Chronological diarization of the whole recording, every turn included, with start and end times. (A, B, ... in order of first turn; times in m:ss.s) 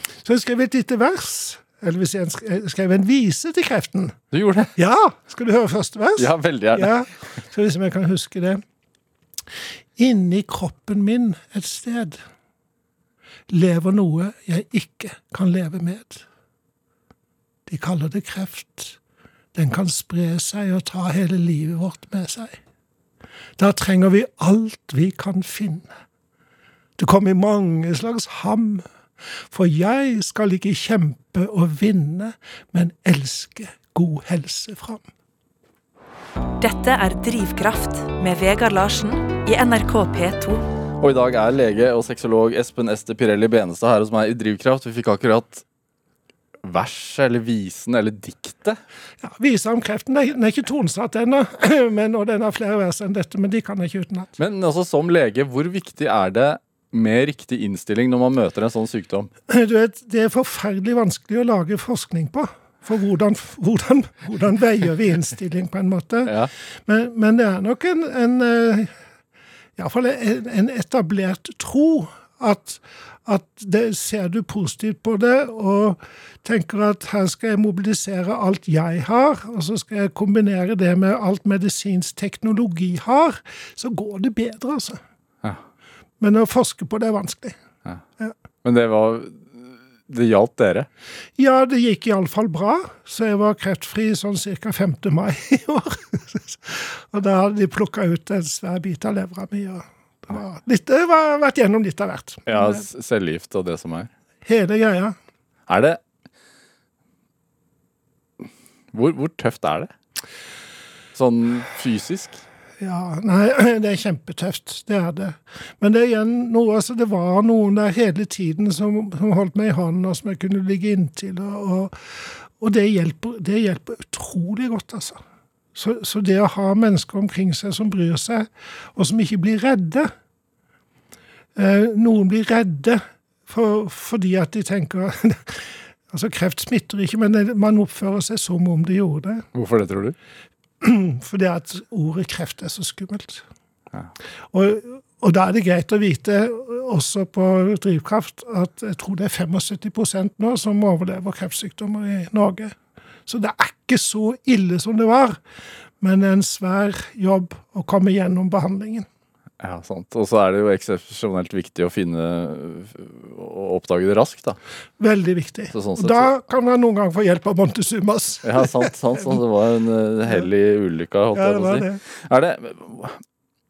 0:00.2-0:04.1 A
0:04.3-0:04.7 B
0:04.8-0:08.6 A
0:06.2-0:06.9 B
0:10.0-0:12.2 A
0:13.5-0:16.2 A
0:17.7-0:19.0 A
0:19.5-0:22.6 A
0:23.6-0:25.9 A
0:27.0-0:28.8 A
0:29.5-0:35.0 A
0:36.6-0:40.6 C
0:41.0-0:45.6 B
0:46.6-0:48.8 B
0:49.2-0:54.4 A
0:54.4-0:59.3 B
0:59.5-1:06.3 A
1:06.2-1:06.5 B
1:06.8-1:08.9 A
1:09.8-1:25.0 A
1:26.2-1:27.6 A
1:28.6-1:30.9 B
1:31.4-1:42.8 A
1:42.4-1:44.1 B
1:44.4-1:45.2 A
1:45.7-1:46.0 B
1:48.9-1:49.9 B
1:51.1-1:52.4 B
1:52.8-2:05.2 A
2:05.7-2:10.1 A
2:11.6-2:19.4 A
2:19.5-2:20.1 B
2:20.8-2:23.4 A
2:24.5-2:32.8 A
2:33.3-2:35.4 A
2:36.0-2:39.1 A
2:39.6-2:44.6 B
2:45.0-2:48.9 A
2:45.7-2:46.3 B
2:48.4-2:53.2 B
2:51.3-2:52.0 A